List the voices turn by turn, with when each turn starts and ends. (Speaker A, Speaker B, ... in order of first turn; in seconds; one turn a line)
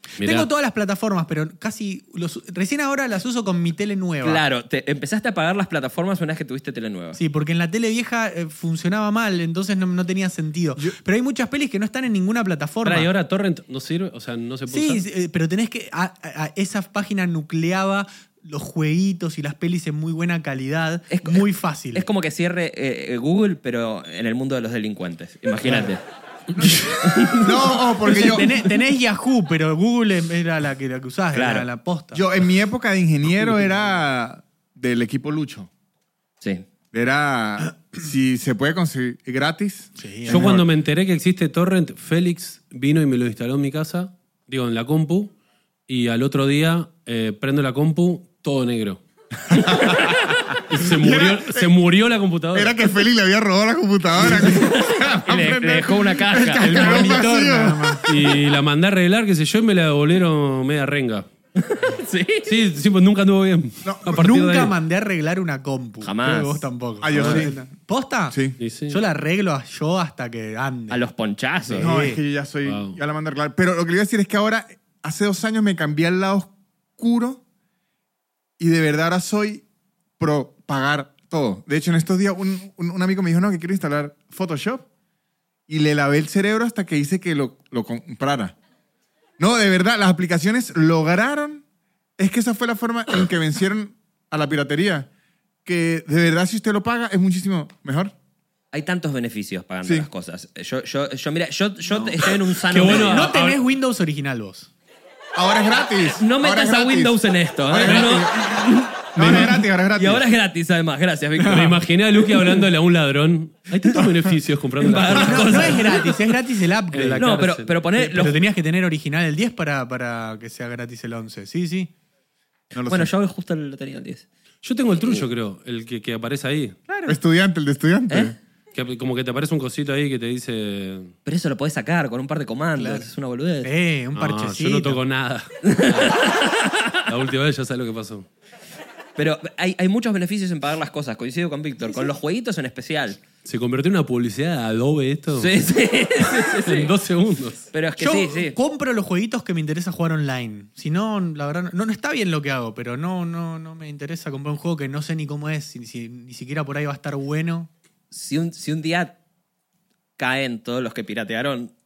Speaker A: 0.2-0.5
Speaker B: 0.2-4.4
Speaker C: 4.2-7.2
Speaker B: 7.1-13.1
Speaker A: 12.8-15.1
Speaker B: 14.7-22.1
Speaker C: 21.1-26.0
Speaker B: 25.6-25.9
Speaker D: 26.6-28.6
Speaker C: 26.6-28.5
Speaker B: 28.0-32.2
Speaker C: 31.3-31.7
Speaker D: 32.1-35.7
Speaker D: 36.9-40.7
Speaker B: 40.0-40.5
Speaker A: 40.3-45.3
Speaker A: 45.9-49.0
Speaker D: 49.5-51.7
Speaker A: 50.7-52.7
Speaker D: 52.5-58.3
Speaker C: 54.2-57.2
Speaker B: 56.6-58.1
Speaker A: 58.0-61.3
Speaker C: 61.6-62.5
Speaker A: 62.5-64.7
Speaker D: 63.8-64.3
Speaker B: 64.2-68.4
Speaker C: 66.0-67.5
Speaker D: 67.0-67.6
Speaker D: 68.3-68.6
Speaker A: 68.6-69.0
Speaker B: 68.9-71.0
Speaker C: 70.9-71.9
Speaker B: 71.7-72.2
Speaker D: 71.8-77.4
Speaker A: 72.6-73.0
Speaker D: 78.6-79.6
Speaker D: 80.2-84.9
Speaker D: 85.7-88.5
Speaker D: 89.4-91.6
Speaker D: 92.2-95.1
Speaker D: 95.6-98.1
Speaker C: 98.7-103.3
Speaker A: 102.7-103.6
Speaker B: 102.9-104.7
Speaker D: 105.3-108.6
Speaker C: 106.2-112.7
Speaker D: 109.1-110.3
Speaker B: 111.4-111.8
Speaker A: 111.5-115.8
Speaker C: 114.8-116.2
Speaker B: 115.2-117.4
Speaker A: 116.9-117.7
Speaker C: 117.2-118.4
Speaker B: 117.9-121.9
Speaker D: 122.7-123.1
Speaker C: 122.8-124.3
Speaker A: 124.6-126.8
Speaker C: 125.0-125.3
Speaker B: 126.9-127.2
Speaker D: 127.1-128.4
Speaker C: 128.1-128.3
Speaker A: 128.7-131.1
Speaker C: 131.2-133.7
Speaker B: 132.8-133.1
Speaker B: 133.6-135.0
Speaker A: 134.1-136.2
Speaker C: 135.7-137.0
Speaker A: 137.1-138.3
Speaker C: 139.2-143.2
Speaker A: 143.4-145.6
Speaker C: 145.3-146.9
Speaker A: 146.2-147.7
Speaker C: 147.7-148.6
Speaker B: 148.0-157.7
Speaker C: 158.1-159.2
Speaker C: 160.2-161.7